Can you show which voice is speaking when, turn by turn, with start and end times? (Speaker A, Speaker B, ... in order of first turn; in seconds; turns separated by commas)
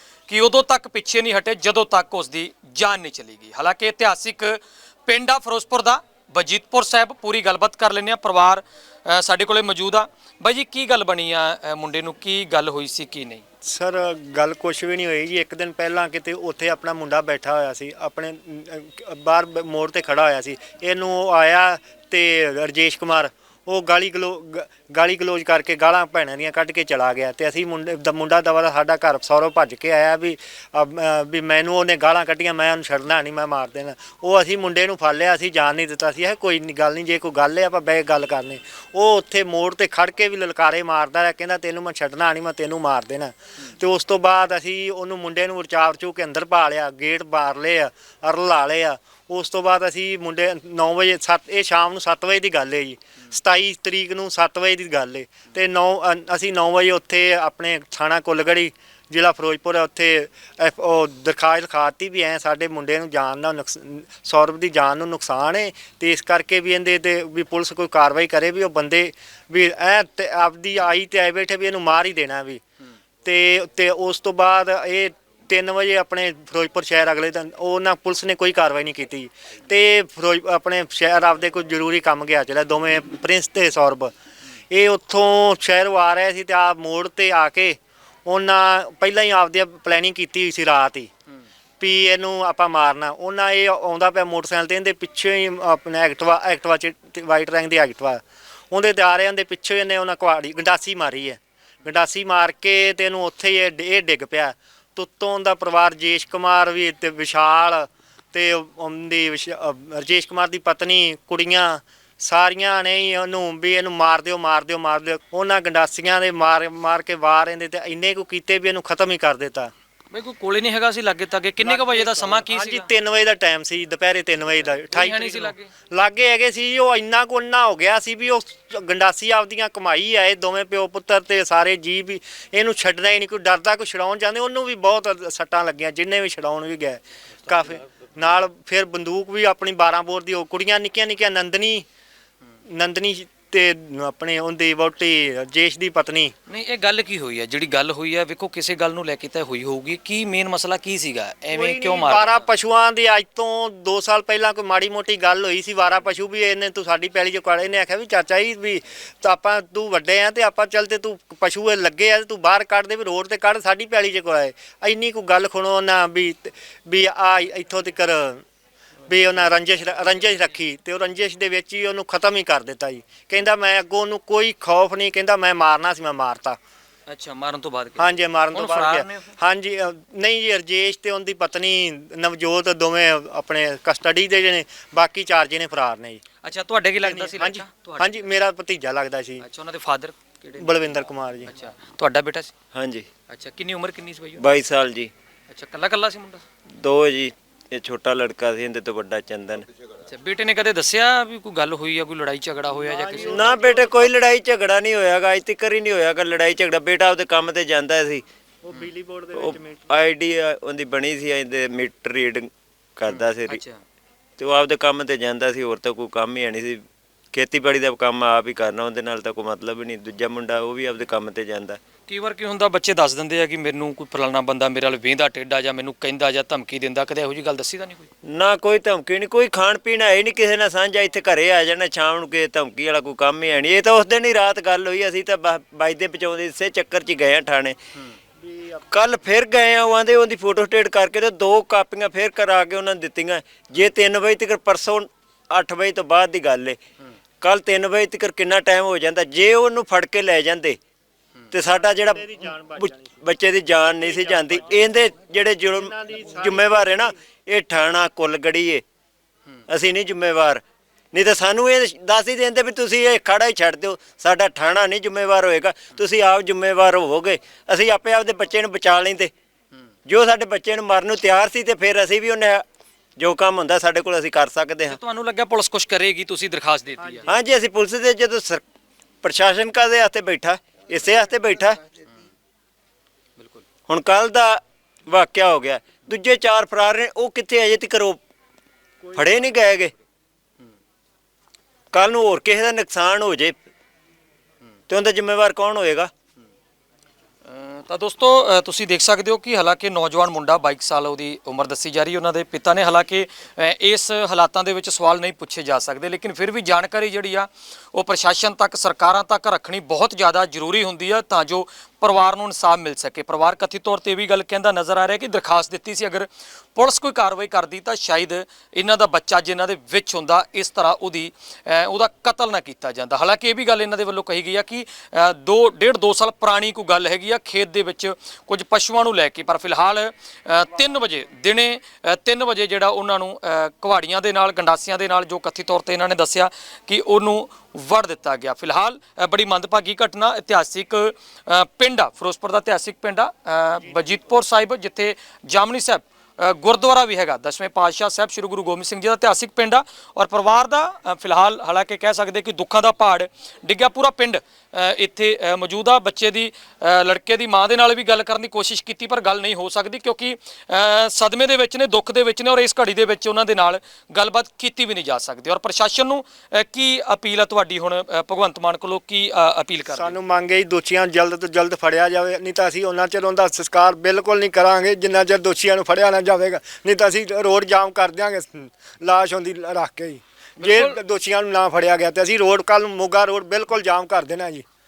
Speaker A: 0.3-13.4, Speaker B: 13.6-72.6, Speaker B: 73.2-84.1, Speaker B: 84.7-91.1, Speaker B: 91.8-119.7, Speaker A: 120.1-122.9, Speaker B: 121.6-141.8, Speaker A: 124.9-125.7, Speaker B: 142.7-146.3, Speaker A: 146.5-152.4, Speaker B: 151.5-168.4, Speaker B: 169.1-176.6, Speaker A: 177.1-179.3, Speaker B: 178.0-186.2, Speaker A: 186.4-188.2, Speaker B: 187.0-189.4, Speaker A: 189.4-192.5, Speaker B: 190.6-191.5, Speaker C: 192.7-193.1, Speaker A: 193.3-194.4, Speaker C: 194.4-195.1, Speaker A: 195.5-196.4, Speaker C: 196.8-199.7, Speaker A: 200.0-203.5, Speaker B: 202.8-204.1, Speaker C: 203.2-208.2, Speaker B: 208.6-209.9, Speaker C: 209.3-213.6, Speaker A: 213.1-213.8, Speaker C: 214.4-221.8, Speaker A: 222.1-228.1, Speaker C: 228.2-237.8, Speaker B: 238.4-238.8, Speaker C: 238.9-246.8, Speaker C: 247.4-250.8, Speaker C: 251.5-252.2, Speaker B: 251.6-253.2, Speaker C: 252.8-258.8, Speaker B: 253.9-255.0, Speaker B: 255.6-257.1, Speaker C: 259.7-260.6, Speaker C: 261.1-269.3, Speaker C: 270.1-272.6, Speaker C: 273.2-275.0, Speaker A: 274.9-277.3, Speaker C: 277.2-278.6, Speaker C: 279.2-281.8, Speaker A: 283.4-283.6, Speaker C: 283.9-288.2, Speaker C: 289.1-289.9, Speaker C: 291.9-293.6, Speaker C: 294.9-296.1, Speaker A: 297.5-370.1, Speaker B: 369.9-384.6, Speaker A: 380.6-381.0